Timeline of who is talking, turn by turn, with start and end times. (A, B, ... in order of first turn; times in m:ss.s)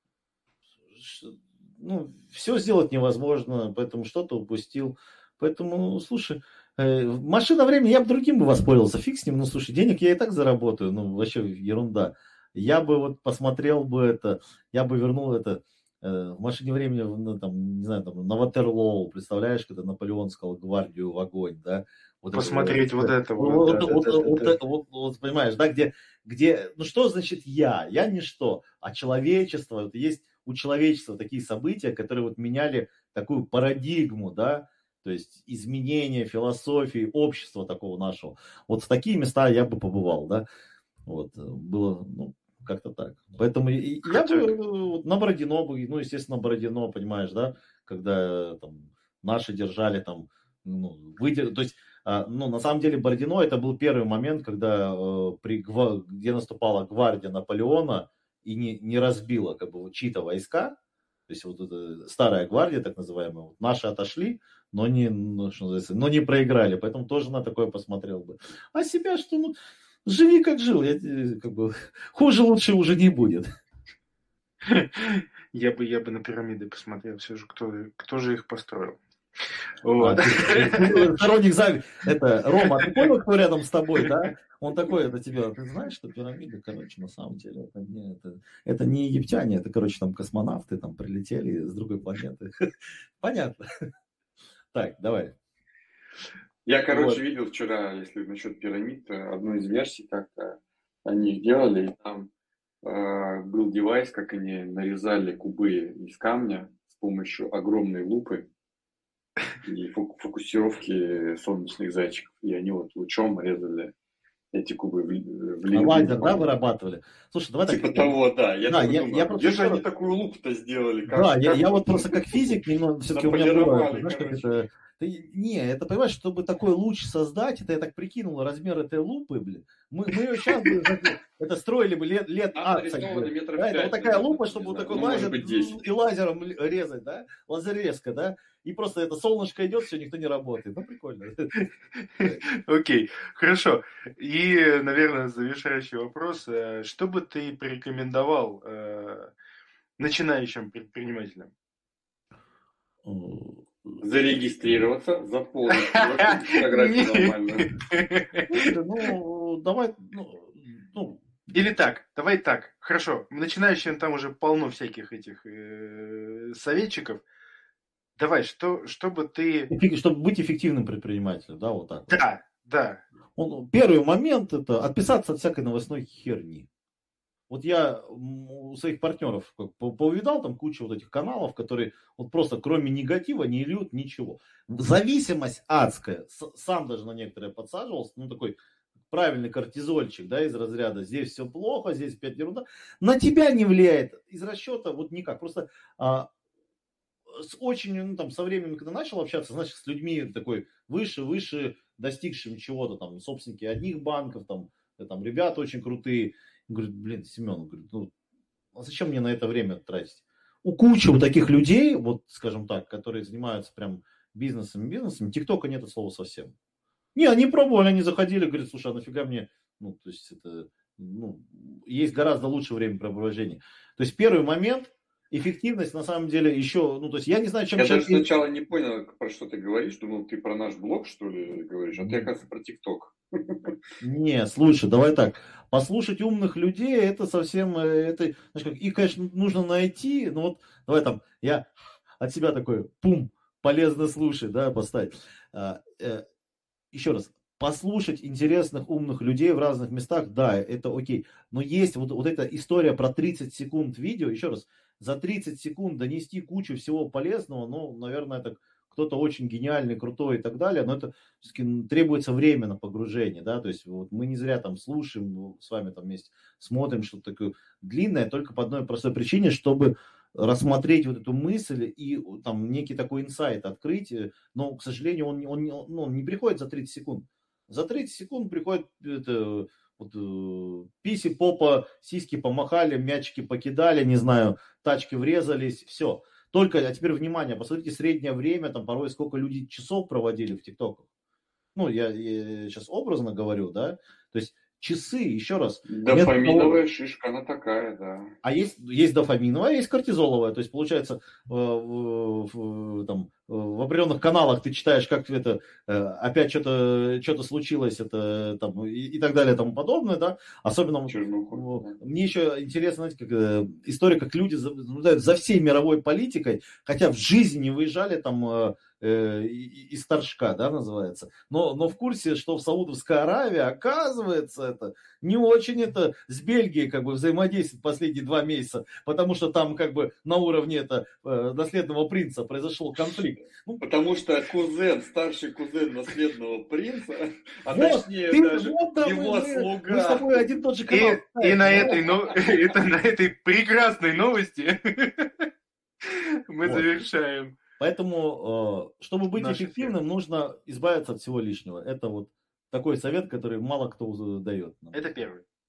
0:00.9-0:40.4 A
0:22.3-0:24.6 B
0:41.0-1:00.7 A
0:44.0-0:44.5 B
1:01.3-1:09.5 A
1:10.0-1:13.5 A
1:14.6-1:19.0 B
1:19.8-1:21.1 B
1:20.0-1:32.5 A
1:33.2-1:33.6 A
1:34.7-1:35.3 A
1:36.6-1:42.3 C
1:36.9-1:37.2 A
1:42.8-1:48.4 C
1:49.6-1:53.9 C
1:54.5-1:56.5 C
1:55.7-1:58.1 A
1:57.7-2:02.6 C
1:58.7-1:59.8 A
2:01.1-2:21.5 A
2:03.1-2:04.7 C
2:12.6-2:15.7 C
2:21.9-2:29.3 B
2:30.0-2:31.5 B
2:33.0-2:34.0 A
2:34.0-2:37.7 C
2:35.7-2:38.7 B
2:38.5-2:41.2 A
2:41.5-2:47.2 B
2:48.2-2:49.7 B
2:49.7-2:52.2 A
2:52.1-2:53.0 B
2:53.4-2:56.6 A
2:57.5-3:08.6 A
3:09.1-3:16.3 A
3:17.3-3:28.1 A
3:28.7-3:36.5 A
3:37.1-3:48.2 A
3:47.8-3:53.8 C
3:52.0-3:52.3 A
3:54.0-4:01.6 A
4:02.2-4:06.2 A
4:06.9-4:51.0 A
4:51.7-4:56.8 A
4:55.9-4:58.3 C
4:58.4-5:33.8 A
5:11.1-5:12.0 C
5:33.8-5:40.5 C
5:37.7-5:42.0 A
5:40.9-5:45.4 B
5:41.7-5:42.5 C
5:46.0-5:47.5 B
5:47.8-5:55.2 A
5:49.3-5:49.9 B
5:54.9-5:55.4 B